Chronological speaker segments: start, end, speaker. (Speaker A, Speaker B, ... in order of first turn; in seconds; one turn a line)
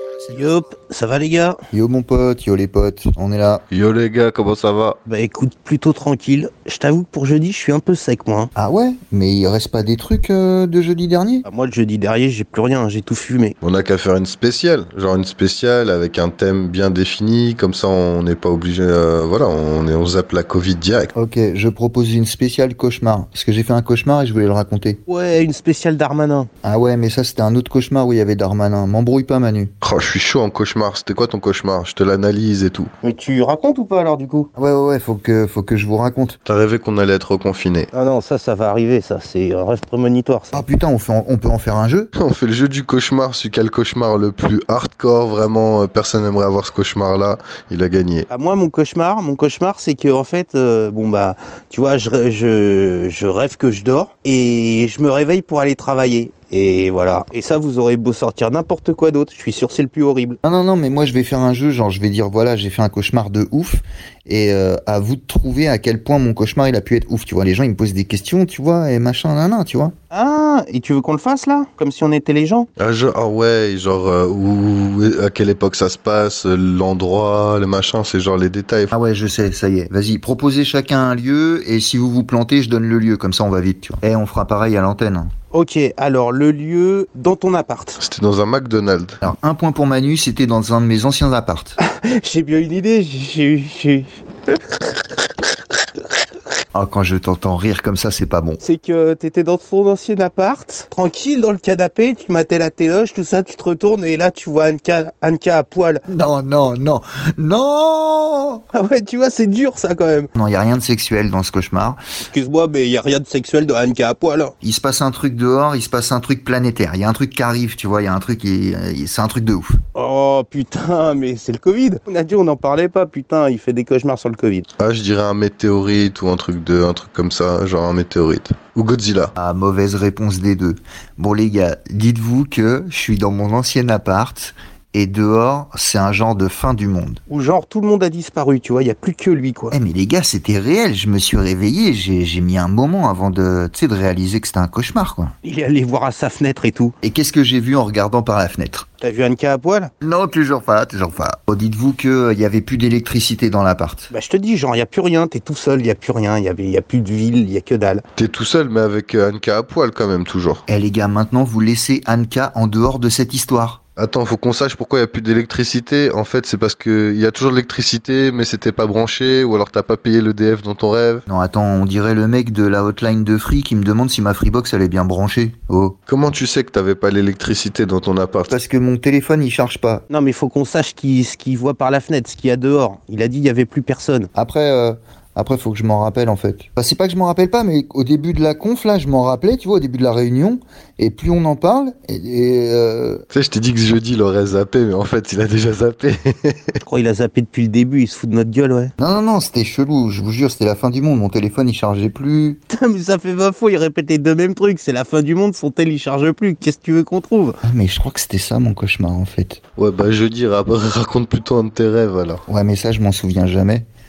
Speaker A: 0.3-1.6
Speaker B: 1.7-3.6
Speaker C: 3.7-5.0
Speaker A: 5.0-8.5
Speaker B: 8.5-11.4
Speaker A: 11.4-13.6
Speaker C: 13.6-21.1
Speaker B: 21.1-25.0
Speaker A: 25.1-26.5
Speaker B: 26.6-29.7
Speaker C: 29.8-32.9
Speaker A: 33.0-34.5
Speaker B: 34.5-36.4
Speaker C: 36.5-37.9
Speaker A: 37.9-40.6
Speaker B: 40.5-42.1
Speaker C: 42.1-48.3
Speaker A: 48.3-60.4
Speaker B: 60.4-69.9
Speaker A: 70.1-72.7
Speaker C: 72.8-78.9
Speaker B: 78.9-85.3
Speaker A: 85.5-88.0
Speaker C: 88.0-89.2
Speaker B: 89.2-91.8
Speaker A: 91.8-94.2
Speaker B: 96.7-98.6
Speaker A: 98.6-106.0
Speaker B: 106.1-108.6
Speaker A: 108.7-110.3
Speaker B: 110.3-112.0
Speaker A: 112.2-114.5
Speaker B: 114.6-119.7
Speaker A: 119.9-124.7
Speaker C: 124.8-129.3
Speaker B: 129.4-137.2
Speaker A: 137.3-139.8
Speaker B: 139.7-145.3
Speaker A: 145.4-146.9
Speaker B: 147.0-148.8
Speaker A: 149.0-149.9
Speaker B: 150.0-154.1
Speaker A: 154.1-158.0
Speaker C: 158.2-160.6
Speaker B: 160.7-163.8
Speaker C: 164.0-171.2
Speaker B: 171.3-175.9
Speaker C: 176.1-178.6
Speaker B: 178.5-180.0
Speaker A: 180.1-184.3
Speaker B: 184.3-193.2
Speaker C: 193.3-196.8
Speaker A: 196.8-198.9
Speaker B: 199.0-202.6
Speaker A: 202.7-207.6
Speaker B: 207.6-209.6
Speaker C: 209.8-212.4
Speaker B: 212.5-213.8